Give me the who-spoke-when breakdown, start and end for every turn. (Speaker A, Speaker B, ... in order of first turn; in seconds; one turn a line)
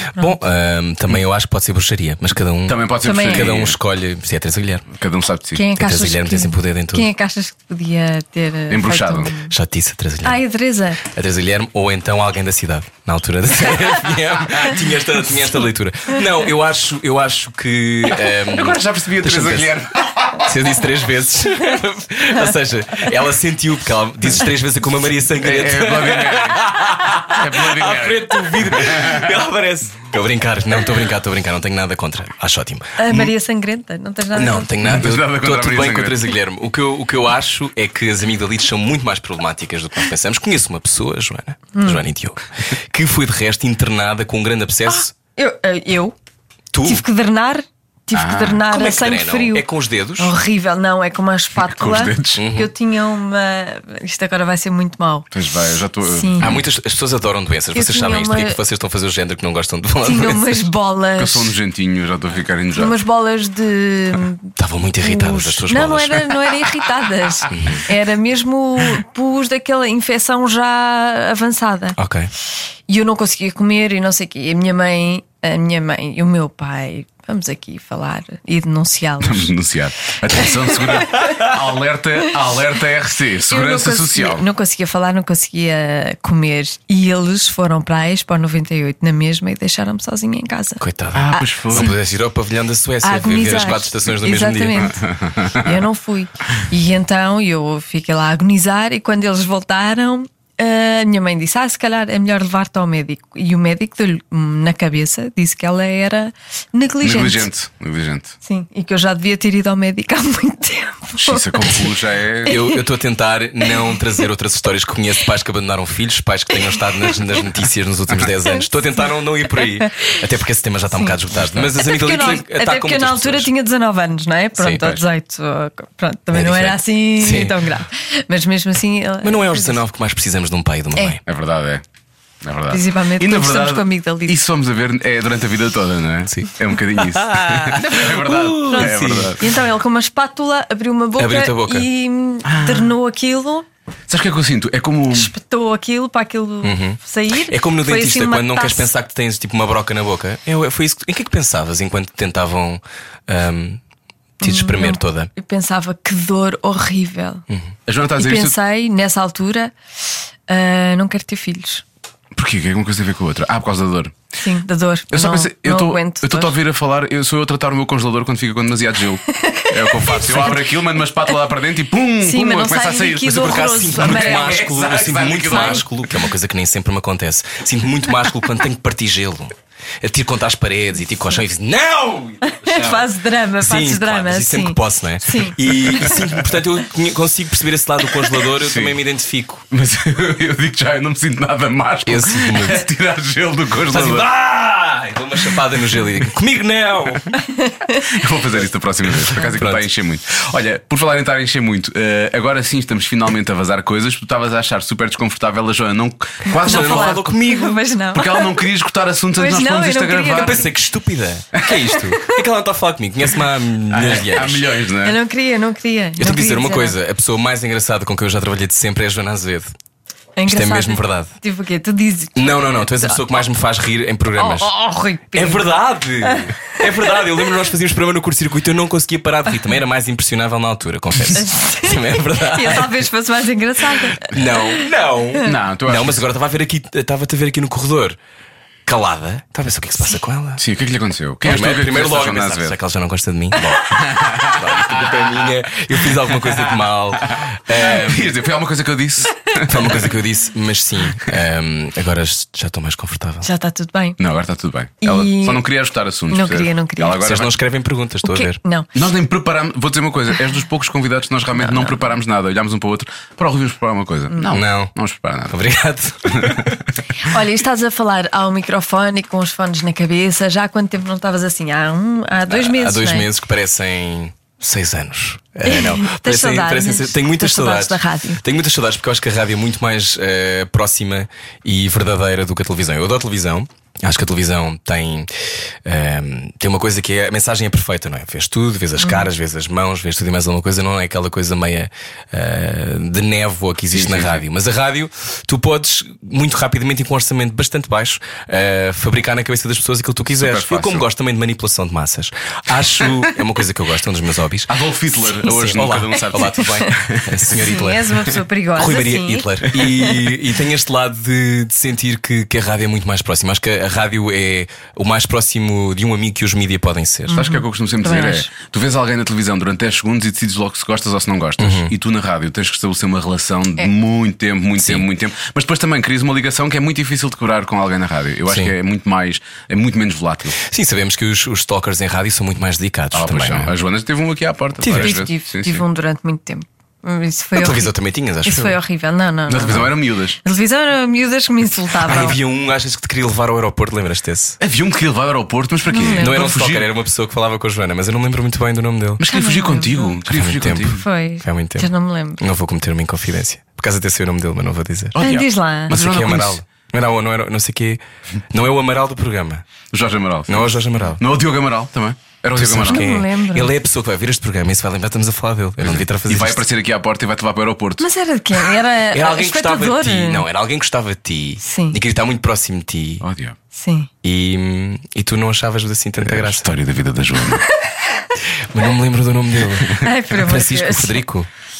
Speaker A: 0.2-4.8
Speaker B: 2.6-3.8
Speaker C: 3.0-3.5
Speaker B: 4.9-5.6
Speaker C: 5.5-9.5
Speaker A: 5.7-7.1
Speaker B: 8.7-9.3
Speaker A: 9.4-10.4
Speaker C: 10.2-11.0
Speaker A: 11.0-19.7
Speaker B: 18.4-20.7
Speaker A: 20.4-33.3
Speaker B: 25.4-29.3
Speaker C: 33.0-34.7
Speaker A: 34.3-45.1
Speaker B: 34.8-36.2
Speaker C: 41.7-42.0
Speaker C: 44.9-46.1
Speaker A: 46.7-47.0
Speaker C: 46.8-49.6
Speaker B: 48.1-48.6
Speaker A: 48.7-50.3
Speaker C: 50.2-55.3
Speaker B: 51.6-52.4
Speaker A: 52.4-52.7
Speaker B: 55.3-56.7
Speaker C: 56.0-56.5
Speaker A: 56.4-60.6
Speaker C: 57.7-58.6
Speaker C: 60.0-61.5
Speaker B: 61.2-63.0
Speaker C: 62.7-72.0
Speaker A: 64.6-66.2
Speaker A: 67.5-67.8
Speaker A: 72.0-72.3
Speaker C: 72.9-79.5
Speaker B: 79.2-84.5
Speaker C: 80.3-81.3
Speaker C: 83.5-92.0
Speaker A: 90.8-94.9
Speaker B: 91.1-91.9
Speaker C: 93.0-107.5
Speaker B: 94.8-95.8
Speaker B: 107.0-108.3
Speaker C: 108.4-111.9
Speaker B: 111.2-112.6
Speaker C: 112.5-112.8
Speaker A: 112.5-123.5
Speaker C: 113.7-114.0
Speaker C: 117.0-117.3
Speaker C: 118.4-120.2
Speaker C: 120.9-129.8
Speaker A: 124.6-125.0
Speaker A: 126.3-127.7
Speaker A: 129.2-131.2
Speaker B: 131.2-131.8
Speaker B: 132.4-139.4
Speaker C: 132.7-134.4
Speaker A: 136.3-139.4
Speaker C: 138.6-143.7
Speaker A: 141.2-141.9
Speaker B: 142.4-142.9
Speaker B: 144.1-145.3
Speaker C: 145.1-148.9
Speaker A: 146.6-153.8
Speaker A: 154.4-155.3
Speaker C: 154.4-157.4
Speaker B: 157.9-158.5
Speaker C: 158.2-159.7
Speaker C: 160.5-161.8
Speaker B: 162.3-164.1
Speaker C: 164.4-166.6
Speaker B: 165.1-176.2
Speaker C: 169.3-170.7
Speaker C: 172.2-174.7
Speaker A: 173.2-189.6
Speaker C: 175.5-175.8
Speaker C: 182.4-186.2
Speaker B: 188.6-188.9
Speaker B: 189.7-194.3
Speaker A: 192.0-192.8
Speaker A: 193.9-197.4
Speaker C: 197.5-198.0
Speaker B: 198.0-207.3
Speaker A: 199.4-199.8
Speaker C: 206.4-208.6
Speaker A: 206.5-207.8
Speaker B: 208.1-210.7
Speaker C: 209.3-210.7
Speaker A: 210.3-214.7
Speaker C: 211.7-212.2
Speaker B: 213.9-215.2
Speaker C: 215.0-216.9
Speaker A: 216.2-219.7
Speaker C: 220.4-223.2
Speaker A: 220.5-221.3
Speaker A: 222.3-224.7
Speaker C: 224.4-225.7
Speaker A: 225.3-233.0
Speaker C: 226.2-227.1
Speaker C: 231.3-234.8
Speaker A: 234.2-238.2
Speaker B: 235.4-236.2
Speaker A: 238.8-240.6
Speaker B: 240.6-242.8
Speaker A: 241.4-248.3
Speaker B: 243.8-245.5
Speaker B: 246.3-250.2
Speaker A: 249.6-253.4
Speaker C: 253.4-254.2
Speaker B: 254.2-257.6
Speaker C: 255.0-255.6
Speaker C: 256.3-257.2
Speaker A: 257.2-258.6
Speaker C: 258.2-258.9
Speaker B: 258.9-265.6
Speaker A: 264.5-264.9
Speaker A: 265.5-266.8
Speaker B: 266.3-266.7
Speaker C: 267.2-273.3
Speaker A: 272.5-304.7
Speaker C: 275.6-278.4
Speaker C: 289.0-289.3
Speaker B: 293.9-294.4
Speaker B: 300.3-301.0
Speaker B: 304.7-307.7
Speaker A: 305.4-317.4
Speaker C: 307.6-310.1
Speaker B: 309.7-310.1
Speaker C: 317.3-318.5
Speaker B: 317.3-330.6
Speaker A: 321.6-321.9
Speaker A: 324.8-325.1
Speaker A: 330.6-333.7
Speaker B: 333.1-335.8
Speaker A: 334.8-335.2
Speaker C: 334.9-337.9
Speaker A: 337.6-338.8
Speaker C: 338.4-342.4
Speaker B: 339.5-340.4
Speaker A: 342.0-344.6
Speaker B: 344.6-346.9
Speaker C: 345.9-346.4
Speaker A: 346.2-349.2
Speaker B: 349.2-351.0
Speaker C: 349.3-350.1
Speaker A: 350.2-355.2
Speaker C: 350.9-352.4
Speaker B: 355.1-356.6
Speaker C: 355.2-355.9
Speaker A: 355.9-358.0
Speaker A: 358.5-359.6
Speaker B: 359.9-363.1
Speaker A: 360.5-361.2
Speaker A: 362.5-366.7
Speaker C: 362.8-363.7
Speaker B: 365.8-368.1
Speaker C: 368.0-370.4
Speaker A: 369.1-373.2
Speaker C: 371.6-372.0
Speaker B: 373.2-373.6
Speaker C: 373.7-374.1
Speaker A: 374.2-376.7
Speaker B: 376.2-377.6
Speaker A: 378.7-381.5
Speaker C: 379.9-381.2